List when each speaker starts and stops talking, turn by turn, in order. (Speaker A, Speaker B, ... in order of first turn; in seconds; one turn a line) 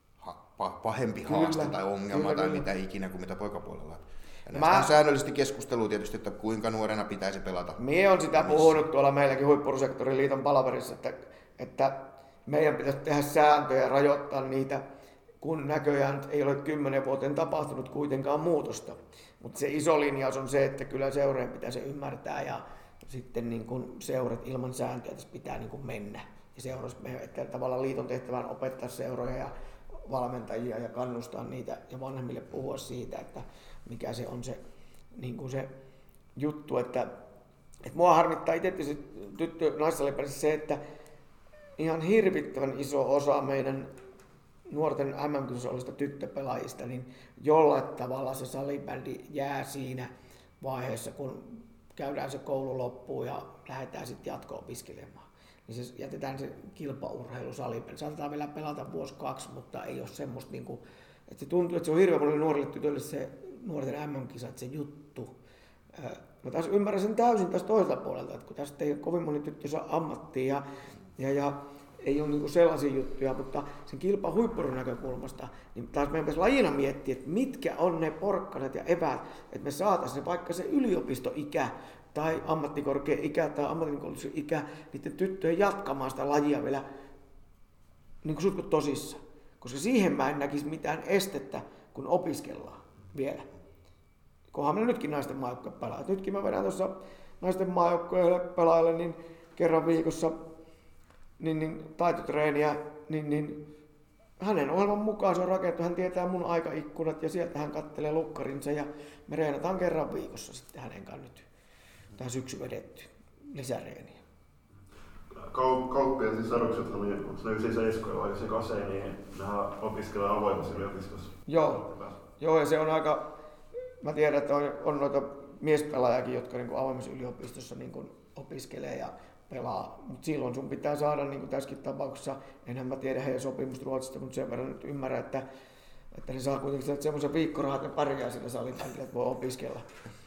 Speaker A: 0.2-7.8
Speaker B: 1.2-2.7
Speaker B: 4.5-4.9
Speaker B: 7.8-14.8
Speaker A: 8.3-8.8
Speaker B: 15.4-29.5
Speaker B: 30.1-34.6
Speaker B: 35.1-35.7
Speaker B: 36.4-37.2
Speaker B: 37.8-40.8
Speaker B: 41.8-43.9
Speaker B: 44.7-65.3
Speaker B: 65.9-70.6
Speaker B: 71.2-86.8
Speaker B: 88.2-93.5
Speaker B: 94.5-100.4
Speaker B: 101.4-103.7
Speaker B: 104.4-111.5
Speaker B: 112.2-114.2
Speaker C: 115.3-122.2
Speaker B: 121.5-121.8
Speaker B: 122.4-123.3
Speaker B: 124.0-135.4
Speaker B: 136.1-139.9